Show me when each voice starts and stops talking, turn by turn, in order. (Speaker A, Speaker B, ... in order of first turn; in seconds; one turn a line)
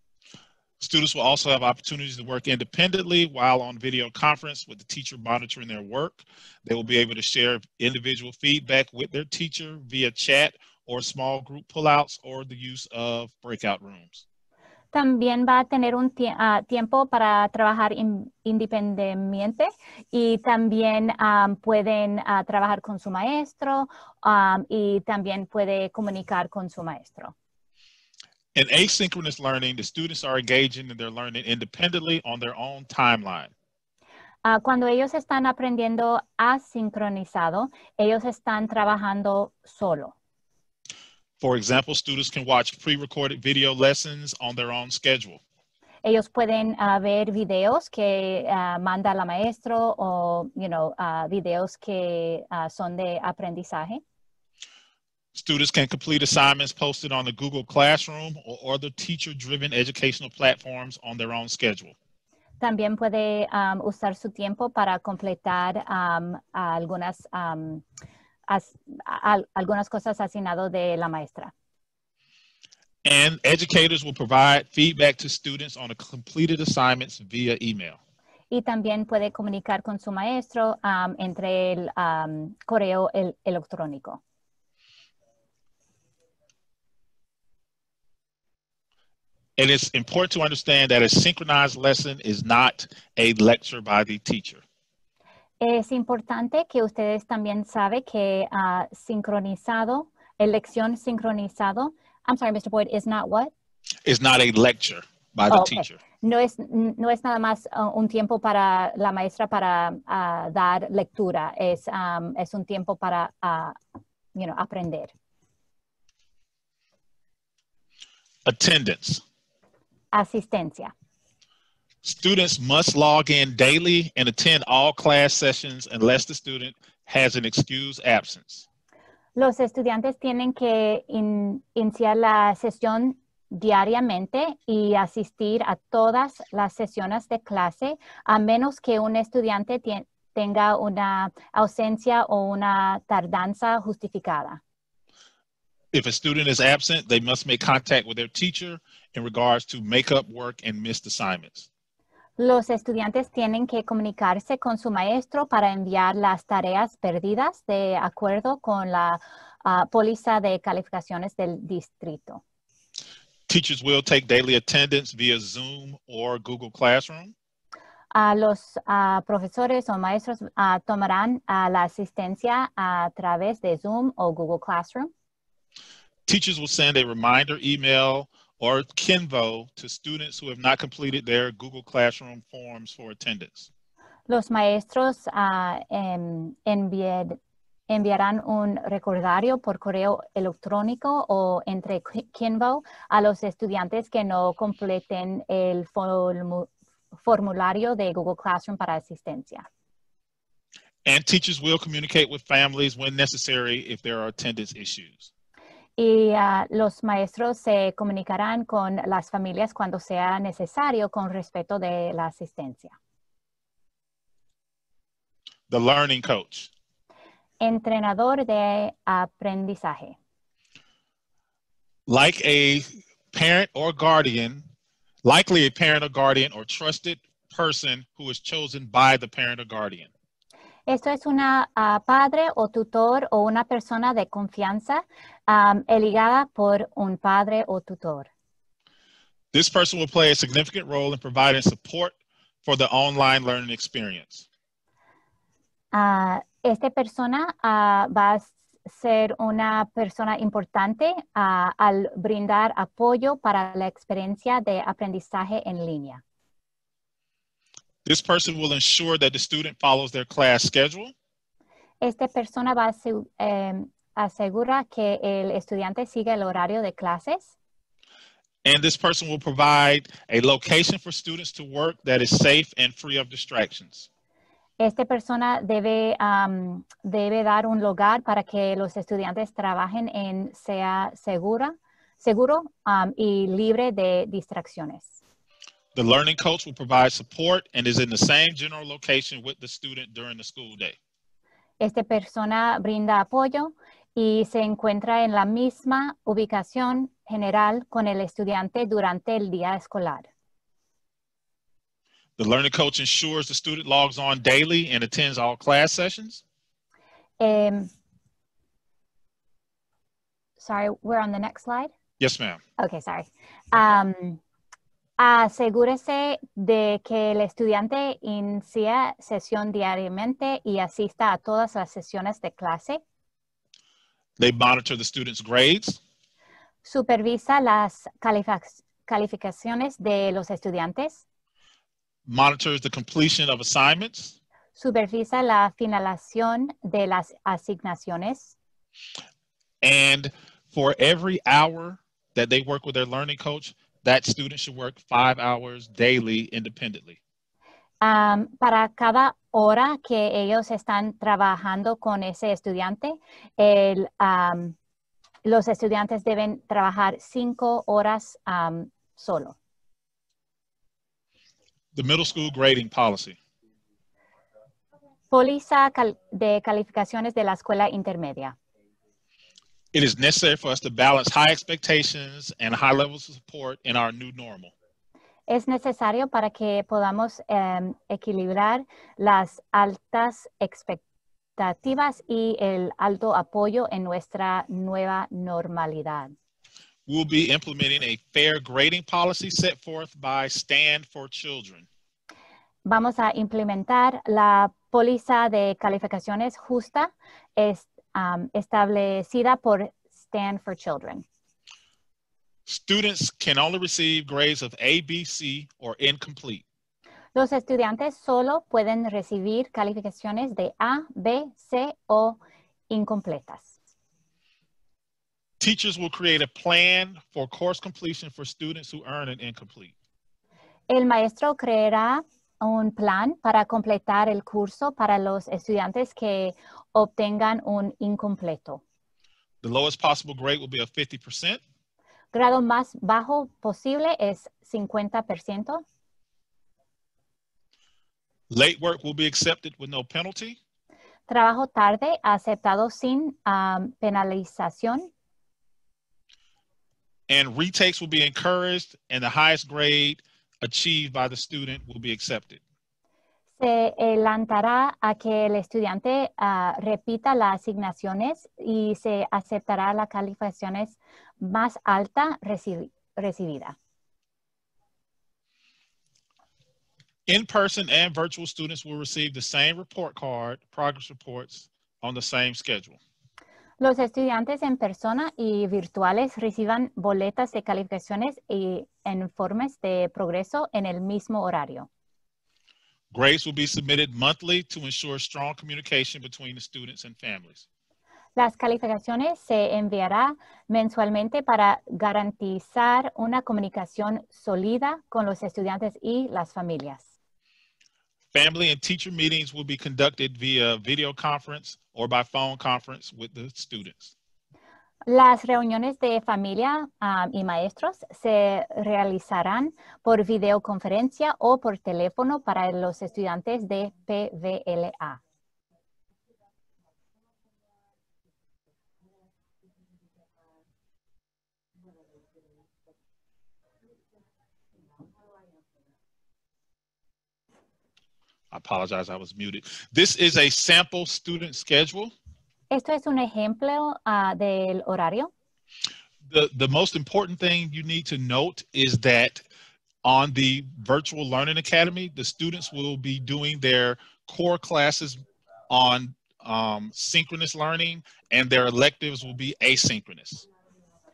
Speaker A: 0.8-14.2
Speaker B: 14.9-27.3
Speaker A: 28.6-33.5
Speaker B: 34.5-40.1
Speaker A: 41.4-45.4
Speaker B: 46.0-54.0
Speaker A: 55.3-62.0
Speaker B: 62.6-67.8
Speaker B: 68.5-71.5
Speaker A: 73.0-78.0
Speaker B: 78.5-84.2
Speaker A: 89.6-94.6
Speaker B: 95.6-103.5
Speaker A: 104.0-106.0
Speaker B: 105.5-113.8
Speaker B: 114.3-115.1
Speaker A: 118.5-119.2
Speaker B: 120.1-120.9
Speaker A: 122.0-128.7
Speaker B: 129.4-144.6
Speaker A: 145.9-151.7
Speaker B: 152.4-162.4
Speaker A: 163.5-167.3
Speaker B: 168.2-175.1
Speaker A: 176.3-183.7
Speaker B: 184.3-187.4
Speaker B: 187.9-199.7
Speaker A: 201.1-205.3
Speaker B: 206.0-212.9
Speaker A: 215.7-216.7
Speaker B: 217.6-220.2
Speaker A: 222.1-224.7
Speaker A: 225.2-230.1
Speaker B: 230.9-238.3
Speaker A: 239.5-244.5
Speaker B: 245.9-256.2
Speaker A: 258.0-261.1
Speaker B: 262.0-267.5
Speaker A: 268.6-274.1
Speaker B: 274.8-285.2
Speaker A: 285.9-291.0
Speaker B: 291.8-300.3
Speaker A: 302.4-306.4
Speaker B: 307.4-307.9
Speaker B: 310.6-311.9
Speaker A: 312.2-312.6
Speaker B: 312.8-314.4
Speaker B: 315.2-323.0
Speaker A: 324.4-326.0
Speaker B: 326.9-331.2
Speaker A: 332.3-334.4
Speaker B: 334.8-338.6
Speaker A: 339.8-347.2
Speaker B: 348.0-354.8
Speaker B: 355.4-359.6
Speaker A: 361.9-363.4
Speaker B: 365.3-368.6
Speaker A: 369.9-374.7
Speaker B: 375.5-381.0
Speaker B: 381.6-386.3
Speaker A: 387.1-391.9
Speaker B: 392.9-401.2
Speaker A: 402.7-406.6
Speaker B: 407.4-413.8
Speaker A: 415.6-419.9
Speaker B: 420.9-428.8
Speaker A: 429.6-431.6
Speaker B: 432.3-435.8
Speaker A: 438.5-440.6
Speaker B: 441.3-445.1
Speaker A: 447.3-452.6
Speaker B: 453.6-463.8
Speaker A: 467.3-473.0
Speaker B: 473.8-481.9
Speaker A: 483.1-487.7
Speaker B: 488.4-497.1
Speaker A: 498.3-504.1
Speaker B: 505.1-515.2
Speaker A: 528.5-532.1
Speaker B: 532.7-535.3
Speaker A: 536.3-539.4
Speaker A: 540.0-550.5